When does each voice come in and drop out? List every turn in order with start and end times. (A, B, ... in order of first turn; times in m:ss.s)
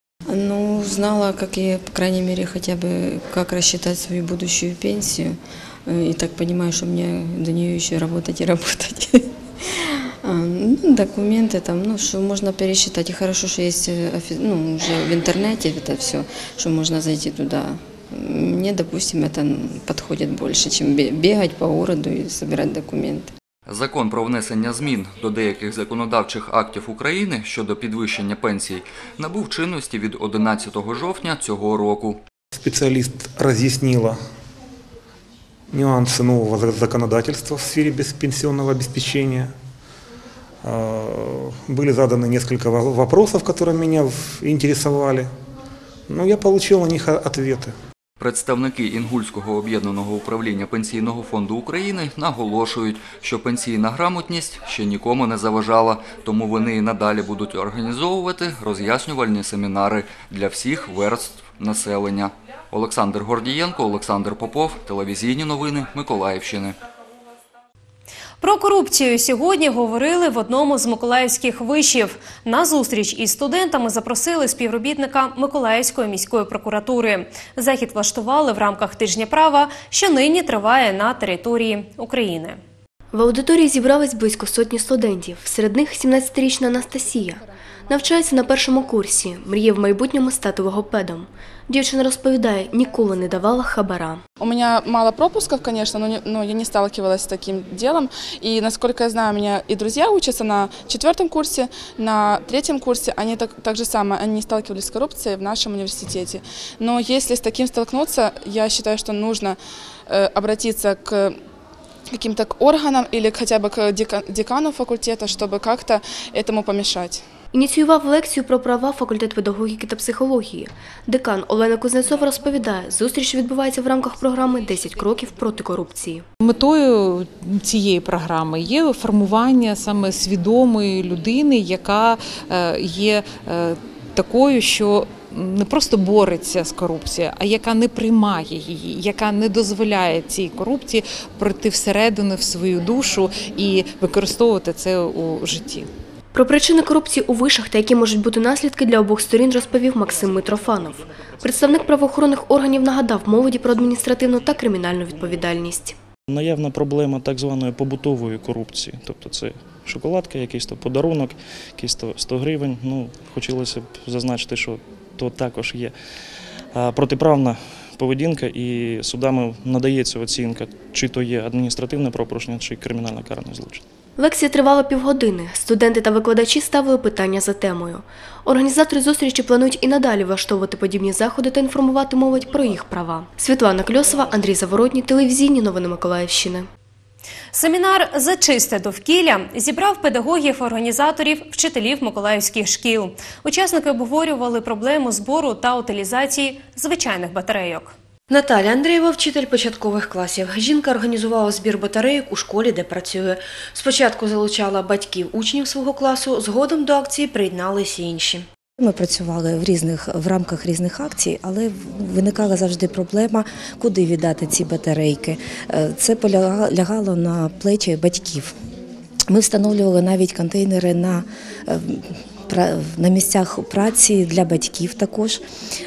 0:00.3-0:09.2 A
0:10.2-0:23.3 A
0:23.6-0:32.2 B
0:32.6-0:34.2 C
0:35.7-0:39.5 C
0:40.6-0:45.3 C
0:46.1-0:47.7 C
0:48.2-1:06.8 B
1:08.4-1:22.6 D
1:23.1-1:34.2 E
1:34.4-1:49.6 F
1:50.1-1:51.4 F
1:52.1-1:57.2 F
1:57.5-2:06.2 E
2:06.4-2:25.9 G
2:26.3-2:35.9 E
2:36.3-2:46.0 H
2:46.7-2:53.8 H
2:54.2-3:06.7 E
3:07.5-3:17.9 D
3:18.3-3:28.4 I
3:28.8-3:38.6 J
3:39.3-3:45.4 J